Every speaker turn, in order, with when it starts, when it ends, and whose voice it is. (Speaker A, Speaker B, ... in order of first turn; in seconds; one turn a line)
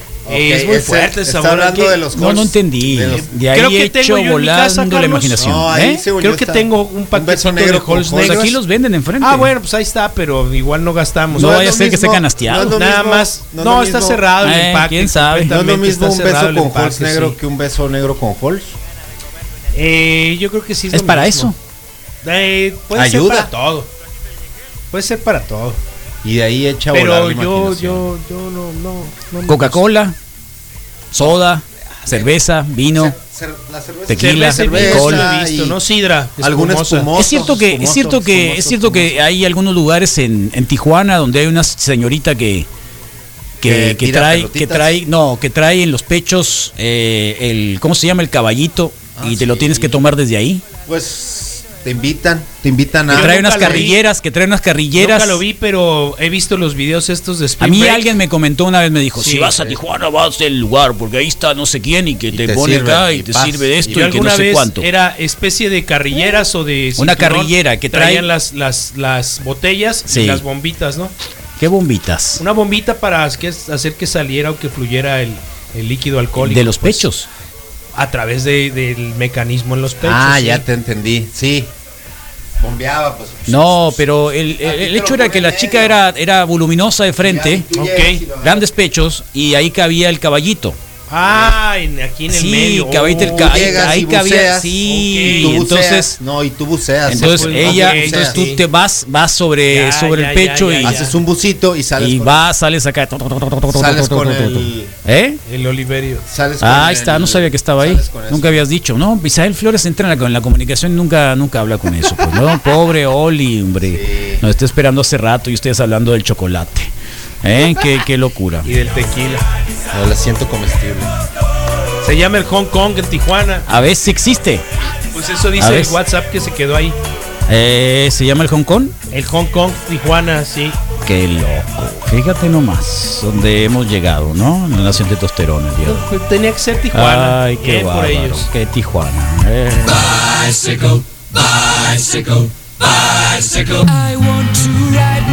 Speaker A: 0.2-3.3
Speaker B: 0.3-2.0
Speaker C: 2.1-6.0
Speaker B: 3.1-5.4
Speaker A: 5.4-8.6
Speaker B: 6.2-8.6
Speaker C: 8.1-9.5
Speaker B: 9.2-11.6
Speaker A: 11.3-14.2
Speaker C: 11.4-12.8
Speaker B: 12.7-17.4
Speaker C: 14.4-15.5
Speaker A: 15.5-18.8
Speaker B: 19.7-21.6
Speaker C: 20.9-21.6
Speaker B: 22.2-23.9
Speaker A: 22.9-23.5
Speaker B: 24.9-25.8
Speaker A: 26.2-28.1
Speaker B: 26.9-29.8
Speaker C: 29.5-30.2
Speaker C: 31.1-33.1
Speaker A: 32.0-32.4
Speaker A: 32.9-35.8
Speaker C: 34.1-35.3
Speaker B: 34.2-37.1
Speaker A: 36.4-39.2
Speaker C: 37.2-42.7
Speaker C: 43.6-50.6
Speaker A: 43.6-45.0
Speaker A: 49.2-50.1
Speaker A: 50.9-53.9
Speaker B: 53.1-54.0
Speaker C: 53.1-55.4
Speaker B: 55.0-58.1
Speaker C: 57.6-64.9
Speaker B: 59.1-59.5
Speaker A: 62.3-63.9
Speaker B: 63.9-71.1
Speaker C: 67.0-68.3
Speaker C: 70.1-70.4
Speaker C: 71.6-72.4
Speaker B: 72.4-77.1
Speaker C: 76.4-77.3
Speaker B: 78.0-80.6
Speaker A: 80.0-81.7
Speaker A: 82.6-86.0
Speaker C: 83.5-87.7
Speaker A: 87.2-88.7
Speaker B: 87.8-88.2
Speaker C: 88.4-90.8
Speaker B: 91.1-93.9
Speaker A: 91.2-91.6
Speaker C: 92.3-96.2
Speaker A: 93.1-98.5
Speaker B: 94.9-95.6
Speaker C: 97.1-101.0
Speaker B: 97.1-98.6
Speaker B: 99.7-101.2
Speaker A: 100.8-102.4
Speaker C: 102.0-105.4
Speaker A: 103.7-105.0
Speaker B: 105.5-106.2
Speaker A: 106.2-108.6
Speaker C: 106.6-116.9
Speaker A: 113.8-114.4
Speaker C: 117.4-118.7
Speaker B: 118.6-119.5
Speaker A: 119.9-121.1
Speaker B: 122.0-123.7
Speaker C: 123.7-124.7
Speaker B: 125.1-127.0
Speaker C: 125.6-126.0
Speaker C: 127.5-128.9
Speaker B: 129.1-130.8
Speaker C: 131.0-136.1
Speaker B: 135.8-138.5
Speaker C: 136.9-143.9
Speaker B: 143.9-145.2